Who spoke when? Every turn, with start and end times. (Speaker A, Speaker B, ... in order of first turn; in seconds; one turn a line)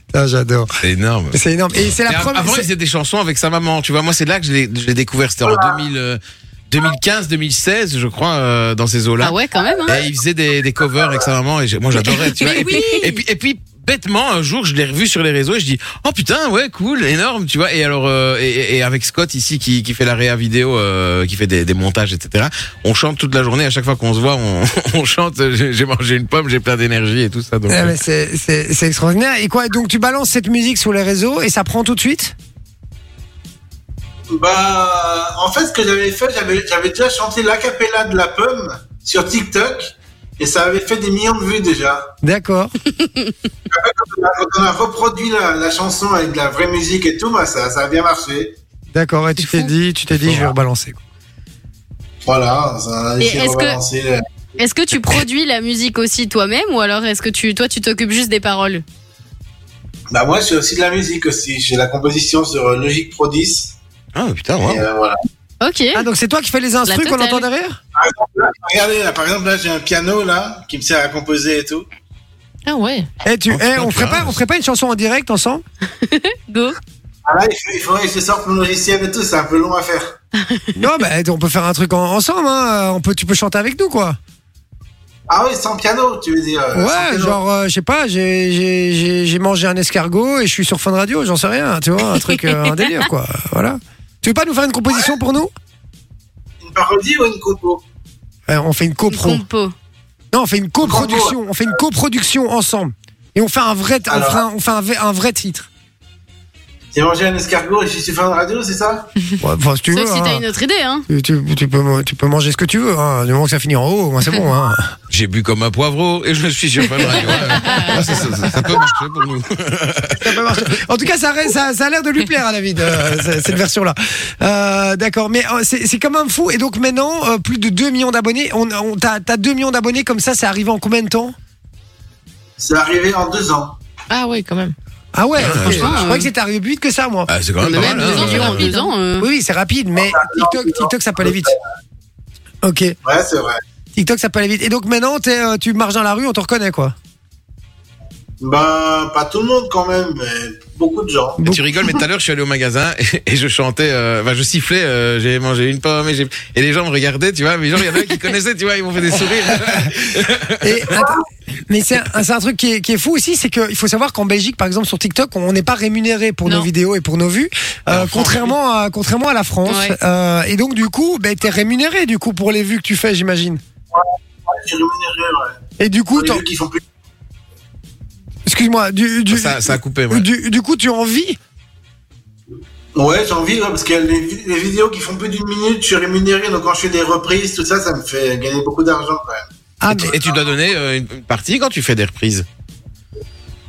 Speaker A: 0.1-0.7
Speaker B: 0.8-1.4
Speaker A: 1.3-2.7
Speaker B: 2.1-28.0
Speaker C: 5.4-5.8
Speaker D: 9.2-10.1
Speaker D: 12.1-12.8
Speaker E: 12.3-13.2
Speaker A: 27.7-32.4
Speaker C: 34.3-42.1
Speaker A: 42.2-42.8
Speaker D: 42.9-43.3
Speaker C: 43.7-48.6
Speaker A: 48.9-51.0
Speaker D: 49.5-49.7
Speaker C: 50.2-50.5
Speaker C: 52.2-54.2
Speaker D: 53.2-53.8
Speaker D: 54.6-58.8
Speaker C: 60.1-63.8
Speaker B: 64.2-64.8
Speaker C: 64.6-65.2
Speaker D: 65.6-66.1
Speaker A: 65.9-67.8
Speaker D: 66.9-67.5
Speaker C: 68.0-71.9
Speaker E: 72.7-73.1
Speaker A: 73.2-75.6
Speaker B: 73.5-74.4
Speaker D: 76.0-76.8
Speaker C: 77.3-80.2
Speaker D: 80.3-80.7
Speaker A: 80.8-84.2
Speaker C: 85.3-87.4
Speaker A: 86.7-95.5
Speaker C: 96.6-97.8
Speaker A: 98.5-99.4
Speaker D: 99.1-99.7
Speaker A: 100.3-105.7
Speaker C: 100.8-101.4
Speaker C: 104.1-104.4
Speaker C: 106.9-109.1
Speaker A: 109.4-110.5
Speaker D: 109.9-111.1
Speaker A: 111.1-115.0
Speaker B: 115.1-120.5
Speaker E: 117.1-117.9
Speaker A: 118.0-118.3
Speaker A: 120.2-131.3
Speaker B: 122.8-123.4
Speaker C: 132.6-133.8
Speaker E: 134.1-134.8
Speaker A: 135.1-141.6
Speaker B: 135.4-136.0
Speaker D: 135.6-136.3
Speaker B: 137.3-138.7
Speaker E: 137.7-138.9
Speaker D: 138.1-139.3
Speaker C: 140.0-141.5
Speaker A: 142.6-143.0
Speaker C: 143.0-143.6
Speaker A: 143.9-146.9
Speaker C: 148.4-151.4
Speaker B: 151.4-160.9
Speaker A: 160.6-173.6
Speaker B: 167.9-168.6
Speaker D: 169.7-170.0
Speaker C: 173.9-175.6
Speaker A: 175.8-176.4
Speaker C: 176.1-176.8
Speaker A: 178.5-181.4
Speaker B: 179.3-180.3
Speaker C: 182.9-189.5
Speaker A: 189.8-190.2
Speaker B: 189.9-192.5